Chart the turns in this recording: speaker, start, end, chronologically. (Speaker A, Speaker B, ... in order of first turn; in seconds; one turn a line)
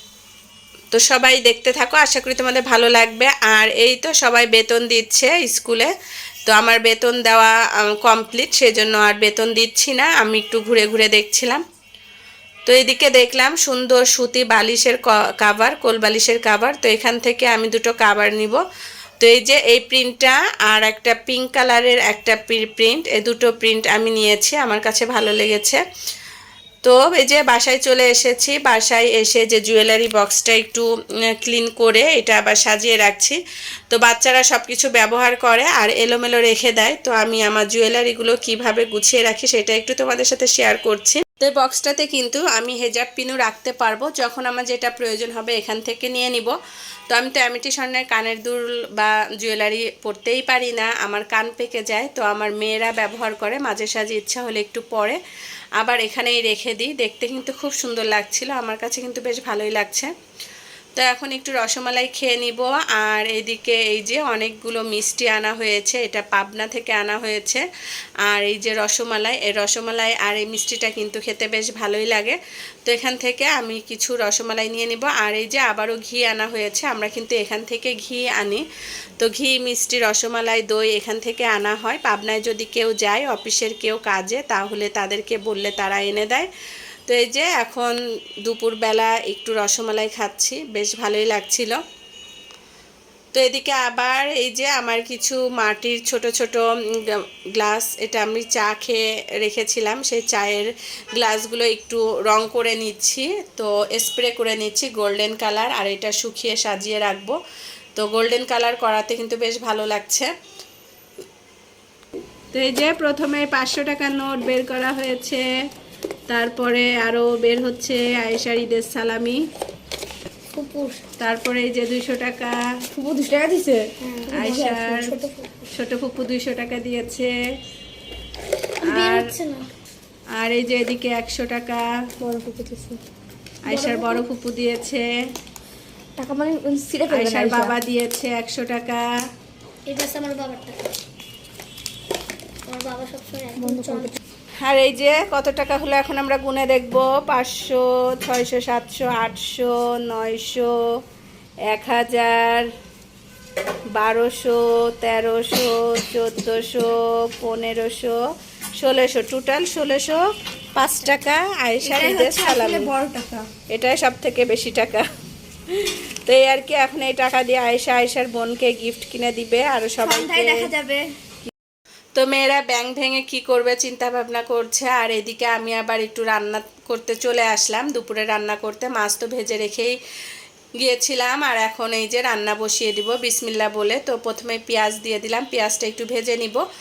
Speaker A: 0.9-5.9
Speaker A: 6.5-11.6
Speaker A: 12.7-18.6
Speaker A: 19.2-25.8
Speaker A: 26.8-30.9
Speaker A: 31.4-33.4
Speaker A: 33.9-46.5
Speaker A: 47.1-55.2
Speaker A: 55.8-60.1
Speaker A: 61.0-67.6
Speaker A: 68.2-78.6
Speaker A: 79.2-86.5
Speaker A: 87.1-91.8
Speaker A: 93.3-107.3
Speaker A: 107.9-110.3
Speaker A: 112.5-115.4
Speaker A: 116.3-119.4
Speaker B: 120.5-121.0
Speaker A: 121.2-122.6
Speaker C: 122.9-125.3
Speaker B: 124.0-124.7
Speaker A: 124.3-125.1
Speaker A: 125.7-127.3
Speaker B: 128.8-129.6
Speaker A: 128.9-129.3
Speaker A: 130.4-131.9
Speaker C: 132.2-133.0
Speaker A: 133.7-135.1
Speaker B: 133.7-134.2
Speaker C: 136.2-137.8
Speaker A: 137.1-139.0
Speaker B: 139.9-141.0
Speaker B: 142.7-144.2
Speaker C: 143.6-144.2
Speaker A: 144.6-150.8
Speaker A: 151.7-152.7
Speaker A: 153.9-158.2
Speaker A: 158.8-162.9
Speaker C: 161.8-163.5
Speaker A: 163.7-165.1
Speaker A: 165.7-170.7
Speaker C: 170.0-171.1
Speaker A: 172.2-179.9
Speaker A: 180.8-186.6